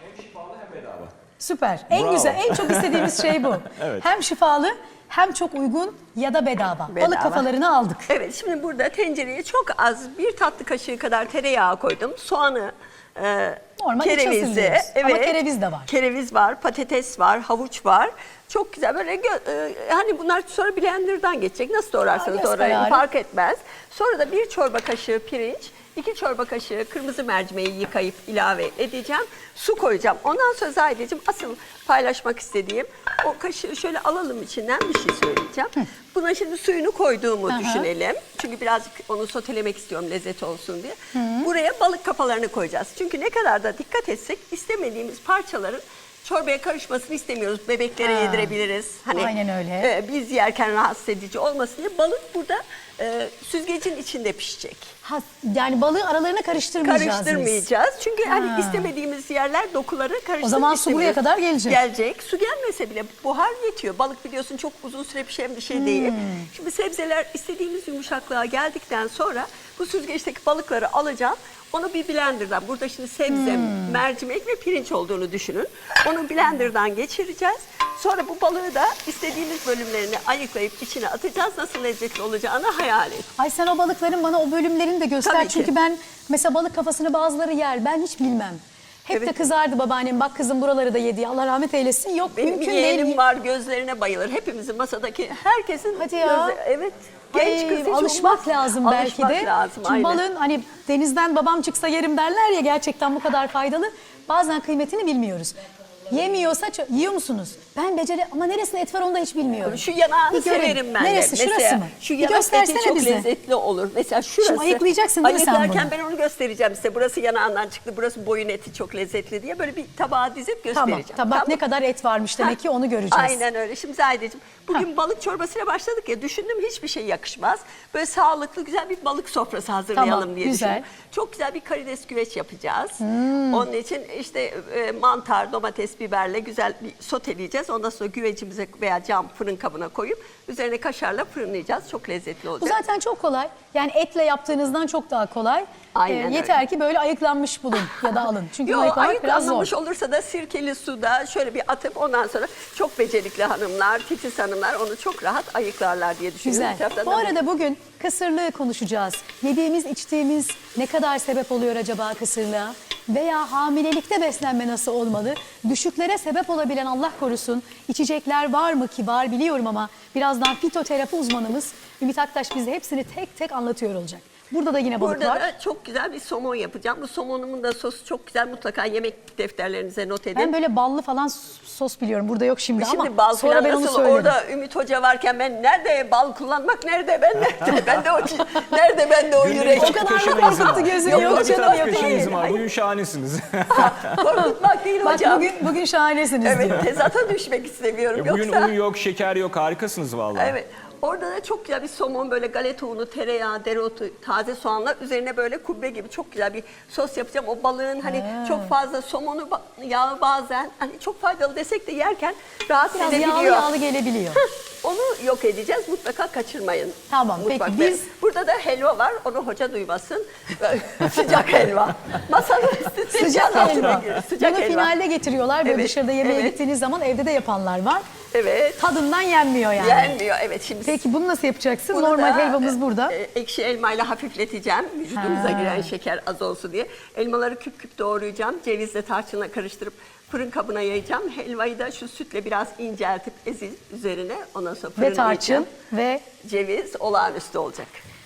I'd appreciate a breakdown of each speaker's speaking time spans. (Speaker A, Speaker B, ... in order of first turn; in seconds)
Speaker A: 0.2-1.1, 1.9-4.1, 189.4-194.2, 198.1-200.6
Speaker B: 1.4-8.1, 13.8-15.9, 22.2-23.0, 37.5-37.9, 41.1-41.5, 48.0-48.5, 49.1-49.9, 55.0-57.7, 58.2-58.9, 60.4-61.8, 65.7-66.5, 73.3-74.0, 83.4-93.2, 96.0-96.6, 97.3-113.3, 114.4-115.9, 120.7-123.4, 129.9-130.8, 133.0-133.7, 142.6-149.7, 156.4-175.5, 180.4-184.4, 189.7-192.4, 195.0-196.9, 208.0-208.8, 212.9-214.4, 217.1-218.1, 223.1-228.0, 228.8-230.2, 230.8-233.2, 235.1-235.9, 245.0-246.2
Speaker C: 6.9-7.5, 8.1-54.9, 56.8-83.3, 85.2-85.7, 89.1-89.4, 92.3-100.2, 109.6-121.6, 123.1-142.8, 145.9-146.6, 148.6-157.3, 175.0-180.6, 182.8-192.6, 193.7-195.7, 196.4-198.7, 200.3-213.8, 214.4-224.9, 225.6-226.6, 228.3-228.8, 229.8-231.0, 231.9-245.7, 246.4-248.0